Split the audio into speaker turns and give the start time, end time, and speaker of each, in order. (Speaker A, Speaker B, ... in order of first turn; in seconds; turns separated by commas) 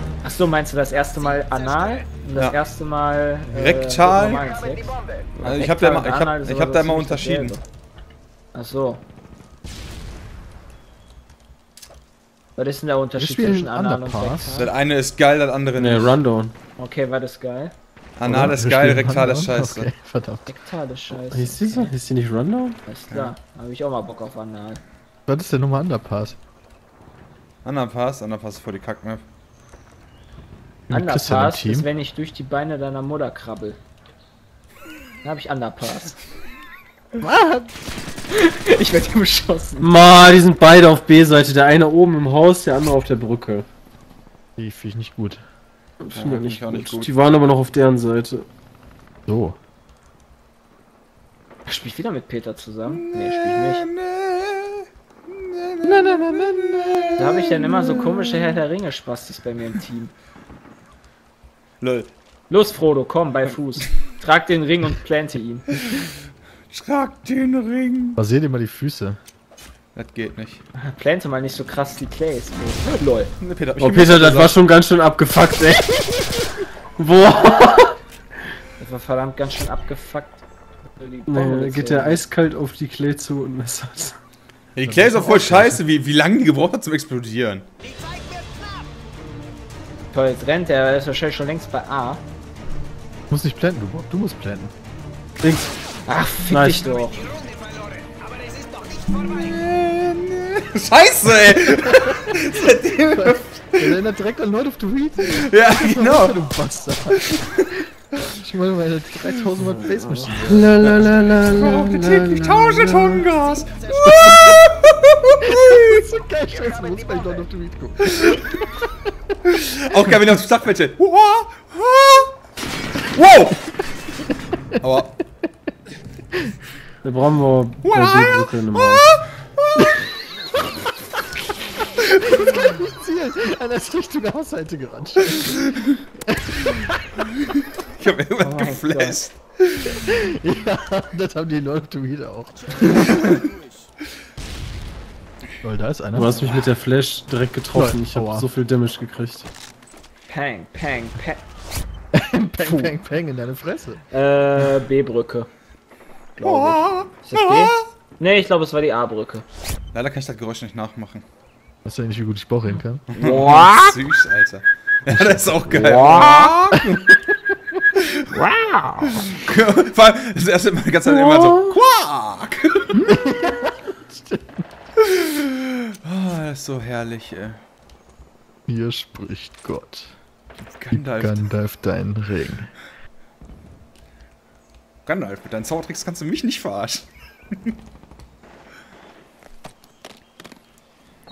Speaker A: 0.2-7.6, Speaker B: 3.5-4.5, Speaker B: 5.4-7.5, Speaker A: 8.5-9.0, Speaker A: 12.6-14.7, Speaker C: 13.2-14.6, Speaker B: 14.6-16.2, Speaker D: 15.8-16.5, Speaker A: 16.8-17.7, Speaker B: 18.2-19.9, Speaker C: 18.2-20.4, Speaker A: 20.4-21.9, Speaker D: 21.3-22.8, Speaker A: 22.9-24.8, Speaker C: 25.3-26.4, Speaker B: 27.6-29.2, Speaker C: 30.9-31.9, Speaker A: 30.9-33.8, Speaker A: 35.2-36.1, Speaker C: 37.2-37.7, Speaker A: 38.3-39.9, Speaker D: 39.8-43.7, Speaker C: 44.6-45.4, Speaker D: 46.0-48.5, Speaker B: 46.1-47.1, Speaker C: 49.2-49.6, Speaker A: 51.6-53.9, Speaker B: 52.9-58.2, Speaker C: 55.8-57.4, Speaker A: 57.2-60.1, Speaker B: 61.8-62.1, Speaker A: 62.5-65.8, Speaker B: 66.7-68.2, Speaker C: 68.2-69.2, Speaker B: 69.9-70.6, Speaker A: 70.8-73.3, Speaker B: 73.4-74.6, Speaker D: 73.8-78.0, Speaker A: 78.8-80.4, Speaker A: 81.0-82.2, Speaker D: 81.3-84.2, Speaker B: 84.8-87.7, Speaker C: 84.8-85.8, Speaker A: 90.1-92.2, Speaker C: 93.3-94.7, Speaker D: 95.4-95.7, Speaker A: 96.1-97.2, Speaker D: 96.5-96.8, Speaker B: 99.1-104.0, Speaker C: 101.8-102.1, Speaker C: 103.1-110.7, Speaker B: 105.3-106.5, Speaker B: 107.1-107.8, Speaker D: 110.4-113.3, Speaker B: 110.8-116.0, Speaker C: 114.1-114.6, Speaker C: 115.4-119.3, Speaker B: 118.0-118.5, Speaker B: 119.5-122.3, Speaker B: 123.0-123.8, Speaker B: 124.8-125.2, Speaker D: 127.0-129.1, Speaker B: 127.8-130.0, Speaker B: 132.1-132.6, Speaker C: 132.2-137.2, Speaker B: 135.3-135.9, Speaker B: 137.5-140.1, Speaker A: 138.4-139.3, Speaker C: 139.9-143.2, Speaker C: 145.6-146.4, Speaker D: 146.2-149.5, Speaker C: 147.7-148.5, Speaker A: 150.3-151.4, Speaker C: 152.1-154.0, Speaker A: 154.1-155.5, Speaker A: 156.4-159.4, Speaker B: 156.4-157.8, Speaker B: 159.9-161.2, Speaker C: 161.8-163.1, Speaker B: 163.1-167.2, Speaker A: 163.2-164.0, Speaker C: 165.1-166.1, Speaker A: 165.7-166.5, Speaker C: 166.7-167.1, Speaker B: 167.9-168.3, Speaker A: 168.3-169.2, Speaker B: 169.0-173.1, Speaker C: 173.0-174.6, Speaker B: 175.0-177.6, Speaker C: 178.7-180.1, Speaker B: 180.8-181.4, Speaker C: 180.9-182.7, Speaker B: 185.1-187.7